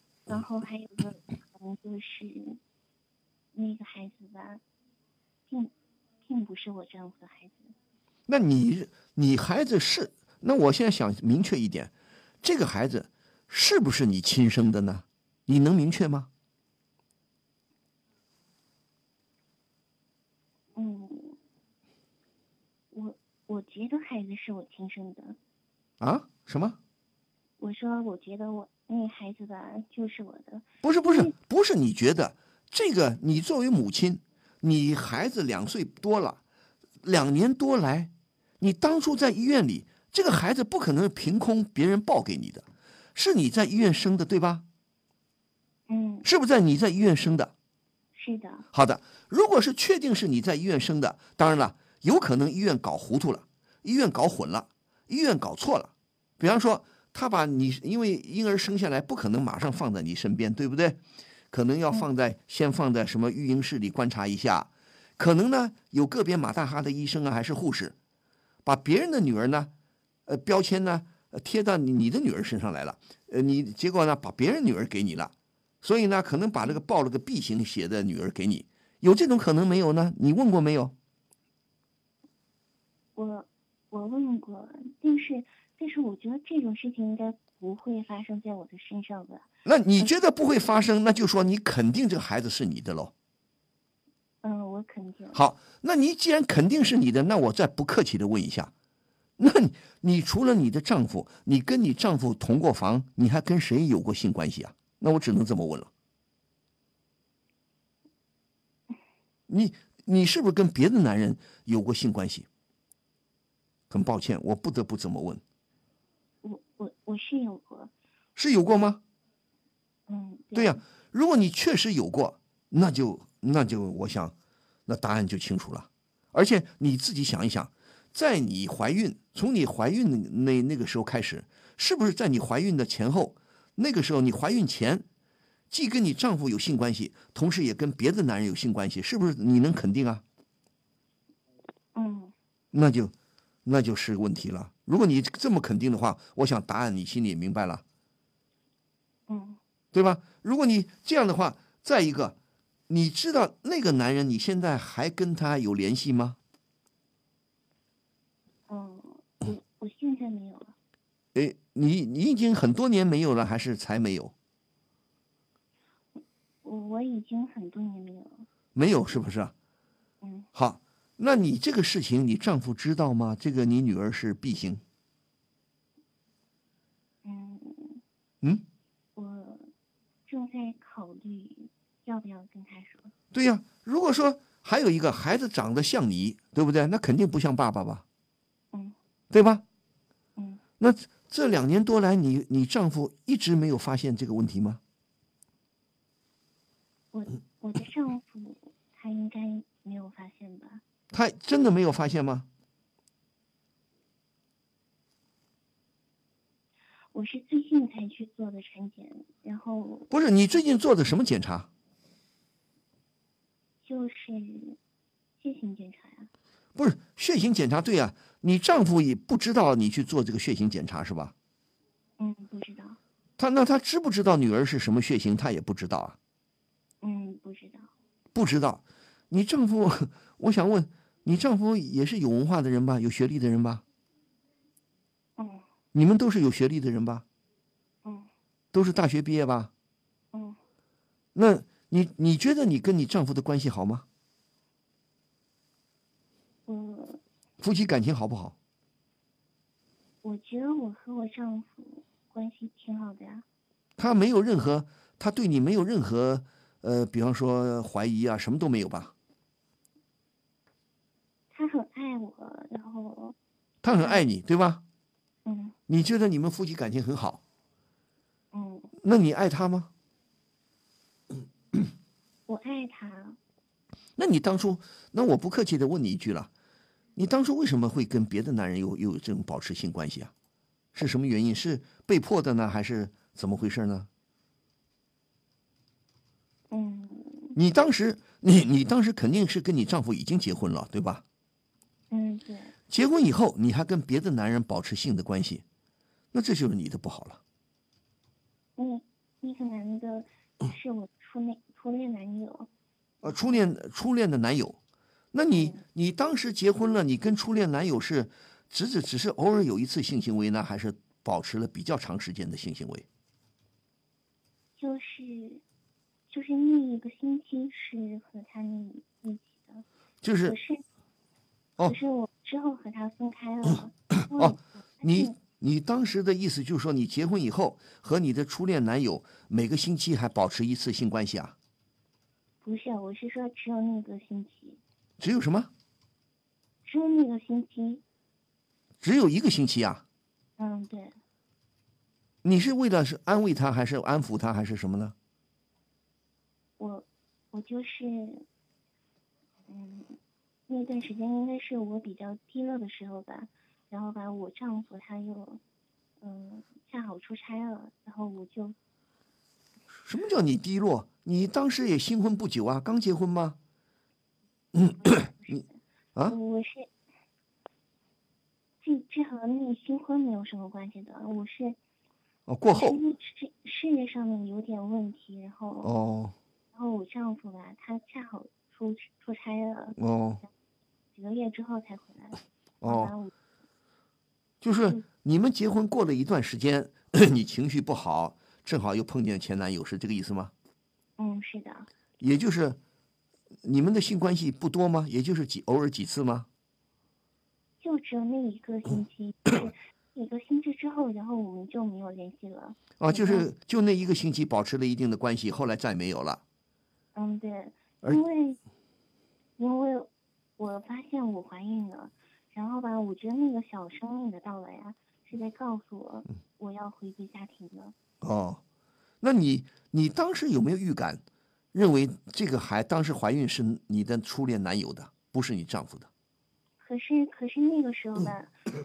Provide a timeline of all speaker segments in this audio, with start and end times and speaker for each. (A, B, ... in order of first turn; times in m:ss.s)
0:00.3-0:02.6 A
0:03.5-0:04.6 A
0:06.2-0:07.7 A
0:08.3-0:11.9 B
0:12.4-0:16.3 B
0:20.7-0:21.4 A
0:22.9-0:25.4 A
0:26.0-0:26.8 B
0:27.6-0:31.3 A
0:30.8-0:36.4 B
0:37.0-0:44.6 B
0:45.9-0:46.3 A
0:46.2-0:47.5 B
0:48.1-0:48.6 A
0:48.7-1:01.0 B
1:01.5-1:07.9 B
1:08.6-1:09.7 B
1:10.3-1:20.9 B
1:23.1-1:29.5 A
1:29.6-1:33.1 B
1:34.4-1:35.4 A
1:35.3-1:38.7 B
1:39.4-1:45.9 B
1:49.5-1:52.5 B
1:53.9-1:55.4 B
1:56.4-1:57.9 A
1:58.4-1:59.0 B
2:00.1-2:00.8 A
2:00.5-2:04.3 B
2:04.9-2:15.0 B
2:15.7-2:20.2 B
2:21.9-2:22.3 A
2:22.7-2:23.1 B
2:23.6-2:27.8 B
2:29.3-2:29.6 A
2:29.9-2:32.4 B
2:32.9-2:36.4 B
2:38.7-2:40.7 A
2:41.3-2:44.3 B
2:46.6-2:48.4 A
2:48.7-2:49.5 B
2:50.2-2:50.5 A
2:50.5-2:54.8 B
2:57.2-2:58.0 A
2:59.2-2:59.7 A
3:00.3-3:03.1 A
3:03.3-3:08.0 B
3:08.7-3:09.0 A
3:09.3-3:09.6 B
3:10.4-3:10.6 A
3:10.8-3:14.8 B
3:17.1-3:20.8 A
3:21.1-3:22.5 B
3:27.1-3:30.1 A
3:30.1-3:31.7 B
3:33.8-3:34.8 A
3:35.4-3:36.3 A
3:36.7-3:41.3 B
3:42.2-3:43.0 A
3:43.4-3:46.2 B
3:47.0-3:47.9 A
3:48.3-3:53.8 B
3:55.4-3:55.6 A
3:55.9-3:57.2 B
3:58.0-3:58.3 A
3:58.7-3:59.7 B
4:00.3-4:00.6 A
4:01.3-4:04.0 B
4:06.7-4:07.2 A
4:07.6-4:08.5 B
4:10.2-4:13.4 A
4:14.0-4:19.1 B
4:21.5-4:23.4 A
4:23.8-4:24.8 B
4:25.4-4:25.8 A
4:25.9-4:27.4 B
4:28.5-4:28.9 A
4:29.0-4:29.9 B
4:32.5-4:33.4 A
4:34.2-4:36.5 B
4:37.2-4:40.3 B
4:40.9-4:44.1 B
4:46.7-4:47.6 A
4:47.6-4:51.2 B
4:52.1-4:52.7 A
4:52.9-4:55.6 B
4:56.3-4:57.4 B
4:58.8-5:02.7 A
5:03.2-5:03.6 A
5:03.2-5:04.8 B
5:05.3-5:13.0 B
5:05.5-5:05.8 A
5:14.8-5:15.6 A
5:16.3-5:19.8 A
5:20.2-5:20.6 B
5:20.4-5:20.8 A
5:21.8-5:25.4 A
5:24.3-5:31.5 B
5:32.6-5:34.8 A
5:35.2-5:35.7 B
5:36.8-5:38.0 A
5:39.0-5:40.0 B
5:40.6-5:41.2 A
5:42.4-5:45.1 B
5:46.8-5:48.4 A
5:49.7-5:55.6 A
5:56.2-5:58.8 A
6:00.0-6:03.6 B
6:04.7-6:05.6 B
6:05.0-6:06.9 A
6:08.8-6:11.8 A
6:12.5-6:13.0 B
6:12.7-6:15.9 A
6:15.8-6:16.3 B
6:16.7-6:20.0 A
6:20.0-6:20.4 B
6:21.1-6:23.3 A
6:22.8-6:23.1 B
6:24.6-6:30.5 B
6:31.2-6:31.9 A
6:32.2-6:32.8 B
6:33.6-6:36.5 B
6:37.8-6:43.5 A
6:43.0-6:46.4 B
6:47.1-6:48.6 A
6:49.6-6:57.9 A
6:58.2-6:58.6 B
6:59.2-7:01.2 B
7:01.7-7:06.1 B
7:06.8-7:08.6 A